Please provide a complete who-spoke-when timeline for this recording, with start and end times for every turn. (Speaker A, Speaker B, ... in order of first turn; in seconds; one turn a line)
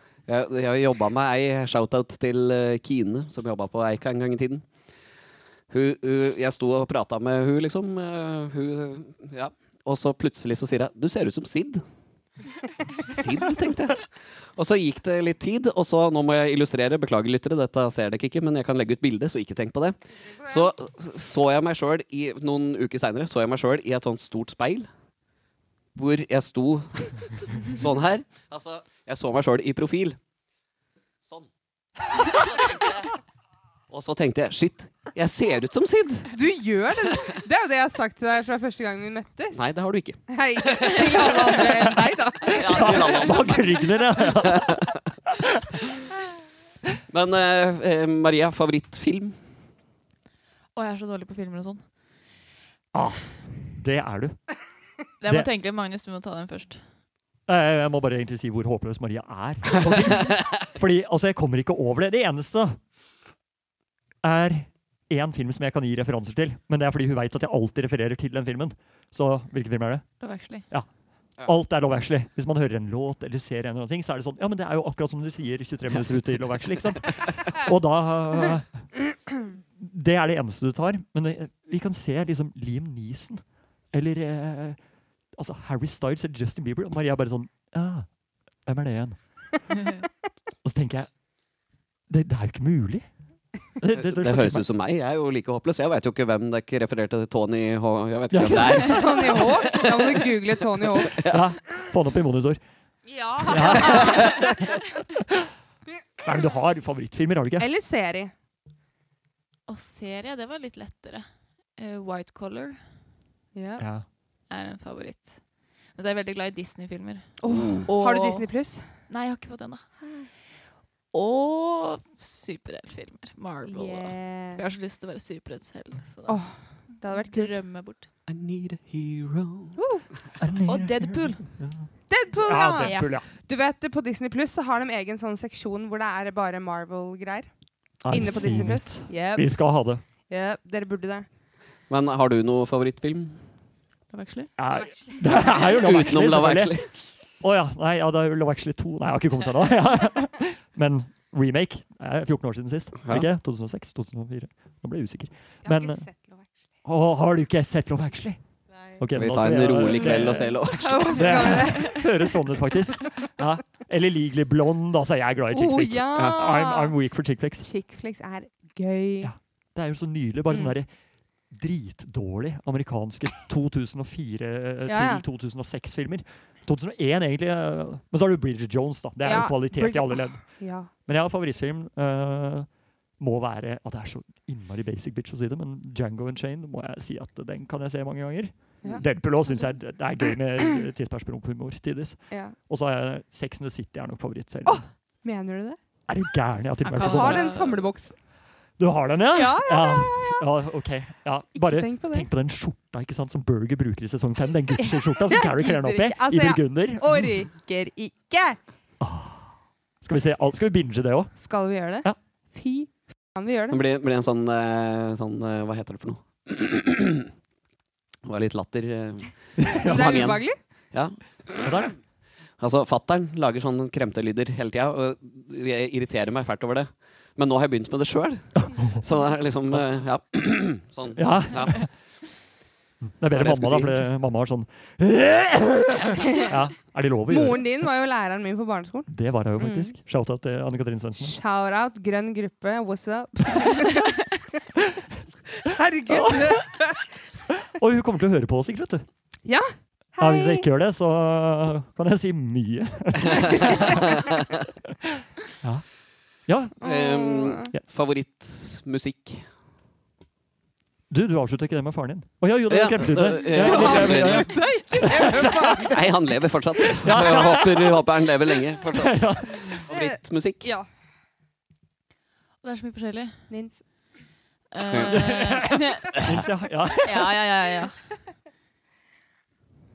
Speaker A: 0.3-4.7
Speaker A: 5.7-11.8
Speaker A: 12.9-24.9
Speaker A: 25.9-30.2
Speaker A: 31.2-31.5
Speaker A: 32.1-33.1
Speaker A: 33.9-36.3
Speaker B: 36.3-39.6
Speaker A: 39.5-41.6
Speaker B: 40.3-43.5
Speaker C: 41.8-45.6
Speaker A: 42.5-43.6
Speaker A: 44.4-45.0
Speaker A: 47.1-49.4
Speaker D: 50.7-51.8
Speaker C: 52.9-54.4
Speaker D: 55.2-56.8
Speaker C: 57.5-62.8
Speaker C: 64.2-70.1
Speaker D: 70.2-70.7
Speaker C: 71.4-78.8
Speaker C: 79.8-84.8
Speaker C: 85.3-88.1
Speaker C: 88.6-89.2
Speaker C: 90.6-91.1
Speaker C: 92.1-93.0
Speaker C: 93.8-94.6
Speaker A: 93.9-101.4
Speaker C: 98.3-99.4
Speaker B: 98.6-101.2
Speaker C: 101.2-102.6
Speaker B: 103.1-104.6
Speaker C: 103.4-104.8
Speaker A: 103.9-104.5
Speaker C: 106.2-107.7
Speaker B: 107.6-108.3
Speaker D: 109.7-112.8
Speaker B: 113.5-113.8
Speaker C: 113.8-114.0
Speaker D: 114.5-118.5
Speaker B: 117.4-118.8
Speaker A: 117.5-117.9
Speaker D: 119.1-120.3
Speaker B: 120.0-120.3
Speaker D: 121.1-126.4
Speaker B: 123.6-124.6
Speaker B: 126.3-127.5
Speaker D: 127.0-128.1
Speaker A: 128.3-129.8
Speaker B: 129.8-130.1
Speaker C: 130.4-133.3
Speaker D: 130.7-131.5
Speaker B: 132.1-137.5
Speaker D: 132.8-133.1
Speaker C: 138.0-140.0
Speaker B: 138.1-139.5
Speaker B: 140.3-141.3
Speaker A: 141.9-143.4
Speaker D: 144.1-144.5
Speaker C: 144.6-146.8
Speaker A: 145.6-146.9
Speaker C: 147.4-156.0
Speaker B: 155.6-156.5
Speaker C: 156.8-158.4
Speaker C: 159.0-167.7
Speaker A: 159.1-161.6
Speaker B: 160.2-162.3
Speaker B: 165.5-166.9
Speaker A: 166.1-166.4
Speaker B: 167.6-169.3
Speaker C: 169.2-170.9
Speaker C: 171.5-194.8
Speaker B: 174.9-175.2
Speaker B: 179.2-180.9
Speaker B: 192.3-192.6
Speaker B: 194.7-195.8
Speaker C: 196.1-197.5
Speaker D: 196.8-197.9
Speaker B: 197.0-198.1
Speaker C: 198.8-207.3
Speaker B: 199.3-200.4
Speaker B: 201.6-202.3
Speaker B: 204.8-208.6
Speaker C: 209.0-211.4
Speaker B: 211.4-213.8
Speaker A: 213.7-217.3
Speaker A: 218.2-221.7
Speaker C: 219.6-220.3
Speaker B: 219.8-220.5
Speaker C: 221.6-222.0
Speaker A: 222.6-231.9
Speaker C: 228.6-229.0
Speaker C: 231.1-231.9
Speaker C: 233.2-237.7
Speaker A: 233.3-234.1
Speaker B: 237.3-239.9
Speaker C: 239.1-241.3
Speaker B: 241.2-244.3
Speaker B: 245.6-247.0
Speaker C: 246.1-246.9
Speaker C: 247.5-249.0
Speaker B: 249.4-250.7
Speaker C: 250.2-254.1
Speaker A: 254.2-254.4
Speaker C: 256.5-256.8
Speaker A: 256.8-259.4
Speaker B: 256.8-257.7
Speaker C: 261.1-265.8
Speaker A: 262.7-264.5
Speaker B: 263.4-266.1
Speaker A: 265.8-270.7
Speaker C: 267.0-268.0
Speaker C: 268.9-269.8
Speaker B: 269.9-270.9
Speaker D: 272.6-273.5
Speaker B: 273.5-273.8
Speaker D: 274.7-276.2
Speaker A: 274.9-275.3
Speaker C: 275.1-277.3
Speaker D: 276.9-278.0